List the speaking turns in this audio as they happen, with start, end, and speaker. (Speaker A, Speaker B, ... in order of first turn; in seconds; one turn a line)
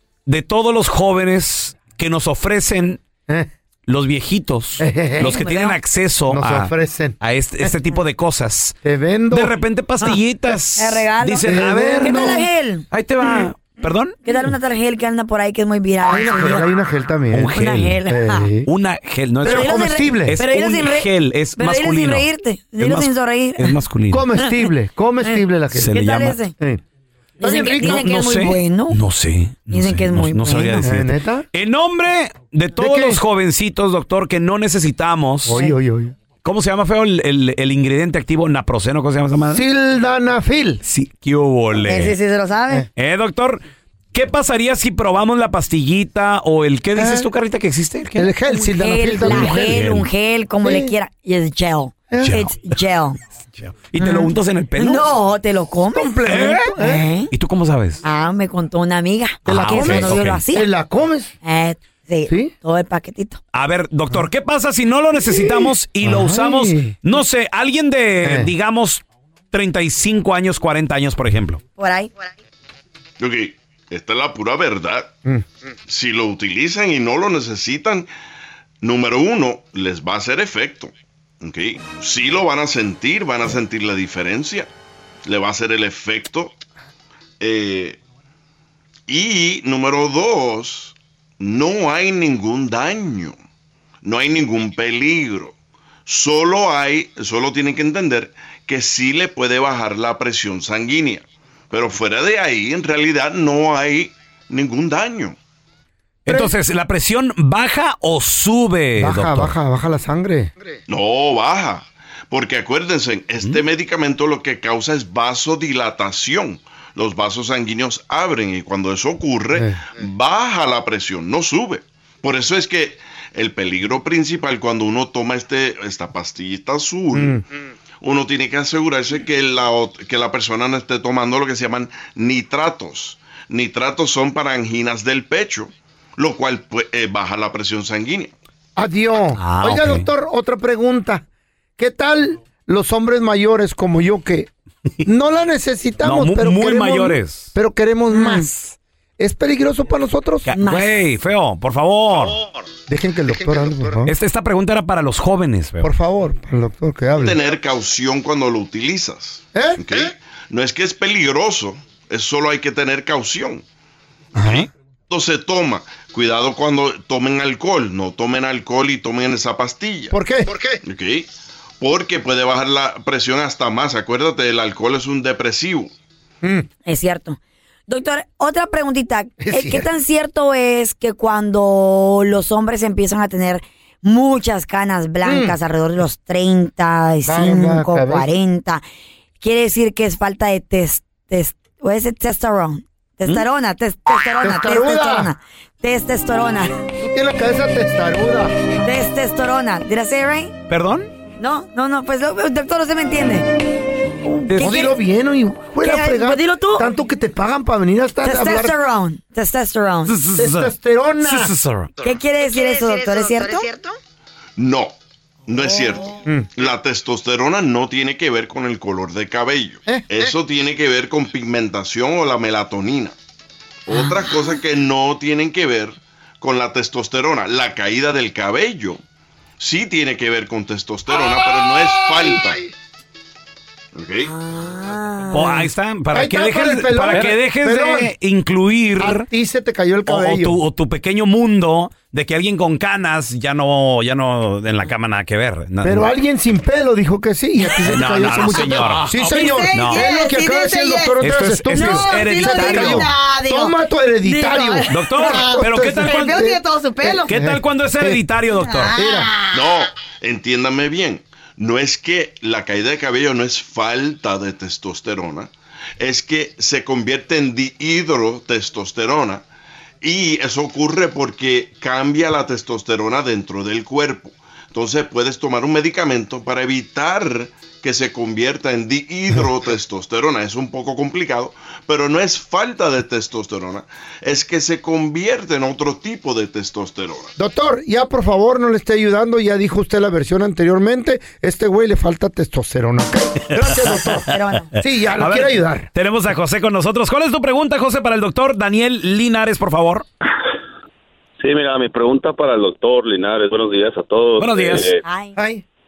Speaker A: 0.3-3.0
Speaker A: 3.9-8.7
Speaker B: 4.8-5.4
Speaker C: 5.2-5.8
Speaker B: 6.3-7.7
Speaker B: 8.8-9.6
Speaker A: 9.3-12.4
Speaker C: 10.8-13.4
Speaker B: 11.4-12.5
Speaker A: 12.9-14.2
Speaker C: 14.2-16.7
Speaker B: 16.1-18.7
Speaker A: 17.3-18.0
Speaker C: 17.5-18.5
Speaker A: 18.7-22.3
Speaker B: 19.4-20.4
Speaker C: 19.4-23.8
Speaker A: 22.8-24.3
Speaker B: 24.1-26.8
Speaker C: 25.3-26.5
Speaker A: 25.7-26.4
Speaker B: 27.4-28.1
Speaker C: 27.4-29.0
Speaker A: 27.8-35.6
Speaker C: 29.7-30.9
Speaker B: 30.8-31.5
Speaker B: 32.8-33.2
Speaker B: 35.5-36.1
Speaker A: 36.4-39.6
Speaker B: 39.5-40.8
Speaker A: 40.8-42.2
Speaker C: 41.8-42.9
Speaker A: 43.0-43.6
Speaker A: 44.1-48.3
Speaker B: 47.0-47.3
Speaker B: 48.2-50.0
Speaker C: 48.5-53.2
Speaker A: 49.3-50.1
Speaker B: 50.6-50.9
Speaker B: 52.1-52.4
Speaker A: 52.2-52.7
Speaker A: 53.6-55.0
Speaker C: 54.0-56.2
Speaker B: 55.9-57.1
Speaker A: 56.3-56.7
Speaker C: 56.7-57.3
Speaker A: 57.3-58.0
Speaker C: 58.0-60.7
Speaker B: 59.5-61.4
Speaker A: 59.6-60.4
Speaker C: 61.4-63.4
Speaker B: 62.3-62.5
Speaker A: 63.5-71.6
Speaker B: 65.2-67.0
Speaker B: 68.2-68.5
Speaker C: 71.8-72.1
Speaker D: 73.2-75.2
Speaker D: 75.9-78.1
Speaker D: 78.8-84.7
Speaker D: 85.2-86.5
Speaker D: 87.4-88.0
Speaker D: 89.1-93.3
Speaker D: 94.0-95.5
Speaker D: 96.1-105.4
Speaker A: 106.3-109.5
Speaker B: 106.3-106.5
Speaker B: 109.0-110.5
Speaker D: 110.9-127.4
Speaker B: 119.5-119.8
Speaker B: 127.1-127.4
Speaker D: 128.0-138.3
Speaker B: 138.8-141.2
Speaker A: 139.4-140.1
Speaker B: 141.8-144.5
Speaker B: 145.1-150.5
Speaker A: 146.0-147.5
Speaker C: 148.1-148.5
Speaker A: 150.4-152.4
Speaker C: 150.6-150.9
Speaker B: 152.9-154.1
Speaker A: 154.1-155.9
Speaker B: 155.8-157.4
Speaker D: 157.2-163.6
Speaker B: 159.5-160.0
Speaker B: 164.3-164.7
Speaker D: 164.4-170.1
Speaker B: 170.1-170.8
Speaker D: 170.8-171.3
Speaker D: 171.8-175.9
Speaker C: 176.8-188.8
Speaker B: 179.4-179.9
Speaker B: 185.2-185.6
Speaker B: 187.2-188.3
Speaker C: 189.4-196.8
Speaker B: 194.4-195.3
Speaker B: 197.1-198.6
Speaker C: 198.8-200.6
Speaker A: 200.7-201.1
Speaker C: 201.4-203.6
Speaker C: 204.2-204.9
Speaker A: 204.5-204.7
Speaker B: 204.6-208.8
Speaker C: 205.8-206.8
Speaker C: 208.2-210.2
Speaker A: 210.1-211.9
Speaker B: 210.3-211.5
Speaker C: 212.0-213.9
Speaker D: 214.6-214.9
Speaker D: 215.4-223.1
Speaker B: 216.2-216.5
Speaker B: 219.9-220.3
Speaker D: 223.9-229.0
Speaker C: 223.9-224.5
Speaker D: 229.6-232.6
Speaker B: 231.3-232.6
Speaker D: 233.9-234.3
Speaker C: 234.2-235.7
Speaker A: 235.3-239.3
Speaker B: 236.1-238.1
Speaker B: 239.0-240.6
Speaker A: 240.1-246.1
Speaker B: 245.8-258.2
Speaker A: 247.9-249.1
Speaker C: 248.2-251.1
Speaker A: 249.7-250.1
Speaker A: 251.2-253.1
Speaker C: 251.7-253.7
Speaker C: 254.3-255.4
Speaker A: 254.9-256.5
Speaker C: 256.1-257.2
Speaker A: 257.3-259.0
Speaker C: 258.8-259.1
Speaker B: 258.9-259.4
Speaker D: 259.5-269.4
Speaker D: 270.0-287.3
Speaker B: 287.4-295.9
Speaker A: 293.6-293.9
Speaker C: 294.2-294.7
Speaker A: 295.2-300.1
Speaker E: 301.4-305.0
Speaker A: 304.4-304.9
Speaker C: 305.1-305.4
Speaker B: 305.4-305.6